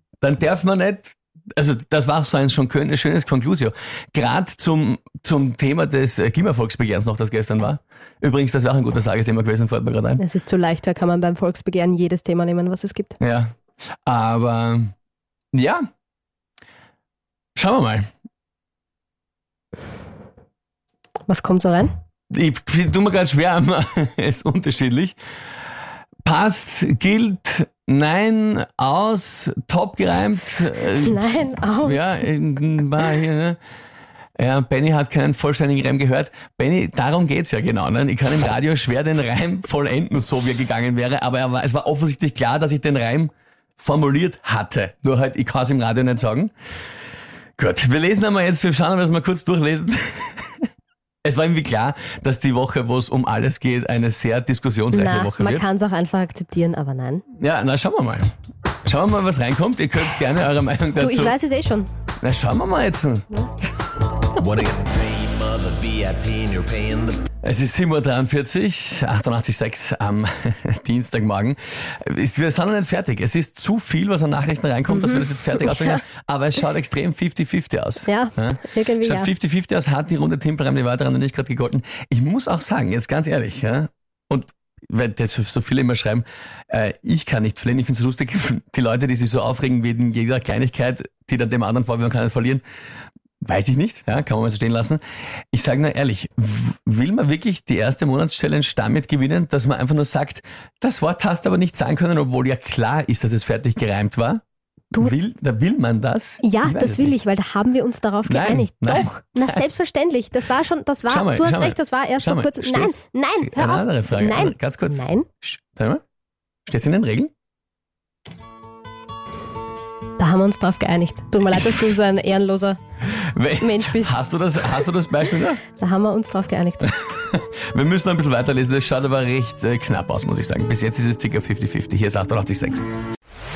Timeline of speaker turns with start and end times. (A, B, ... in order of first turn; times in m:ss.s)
0:00.2-0:10.2 A
0:10.2-0:13.2 B
0:13.2-0:13.5 A
0:14.0-0:14.9 A
0:15.5-0:15.9 A
0:17.6-0:18.1 A
0:21.3-0:21.9 B
0:22.3-0:25.2 A
0:26.2-0:31.2 A
0:31.0-0:32.3 B
0:31.8-0:33.6 A
0:34.4-0:46.5 A
0:47.6-0:50.6 A
0:51.2-0:55.7 A
0:54.9-0:57.2 B
0:57.4-0:58.3 A
0:58.8-1:01.4 A
1:01.0-1:01.9 B
1:02.2-1:03.5 A
1:04.4-1:07.2 C
1:07.4-1:32.6 A
1:14.9-1:16.0 B
1:18.1-1:19.3 B
1:33.4-1:44.4 A
1:45.0-1:47.2 A
1:46.4-1:55.3 B
1:48.3-1:49.6 A
1:51.1-1:56.0 A
1:56.7-1:57.3 A
2:00.2-2:02.8 B
2:03.1-2:05.6 A
2:03.6-2:04.2 B
2:05.8-2:06.9 B
2:06.9-2:12.9 A